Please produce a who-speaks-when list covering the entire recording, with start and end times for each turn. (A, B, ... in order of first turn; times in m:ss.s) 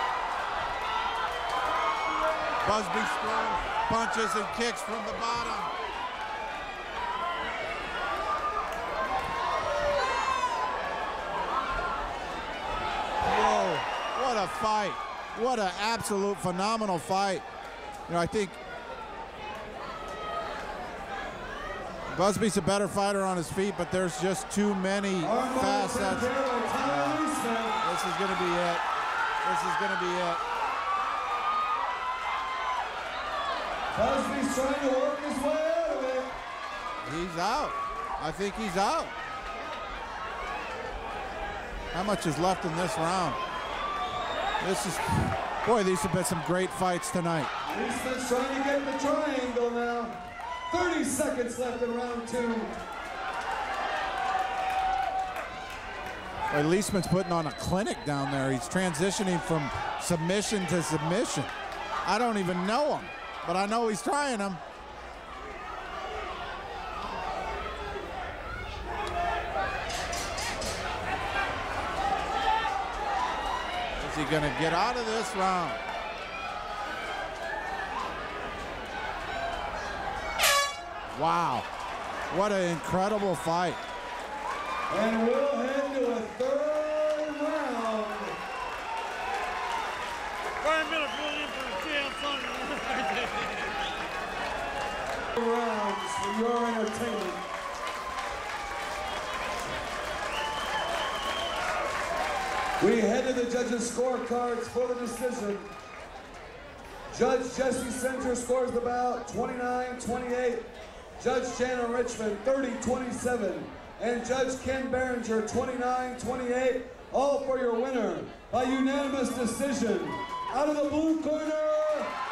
0:02.6-0:05.7 A
0:13.2-0:17.4 A
0:18.1-0:18.6 A
0:22.1-0:26.3 A
0:25.2-0:27.8 B
0:26.8-0:27.2 A
0:27.8-0:28.8 A
0:29.4-0:30.4 A
0:33.9-0:36.3 B
0:37.0-0:39.1 A
0:41.9-0:43.4 A
0:44.6-0:47.5 A
0:47.7-0:50.2 B
0:50.7-0:52.7 B
0:56.5-1:01.5 A
1:02.0-1:04.6 A
1:14.0-1:15.8 A
1:21.1-1:21.7 A
1:22.3-1:23.8 A
1:24.9-1:28.3 B
1:30.6-1:33.8 C
1:35.3-1:37.4 B
1:42.8-1:45.7 B
1:47.1-1:50.7 B
1:51.2-2:02.1 B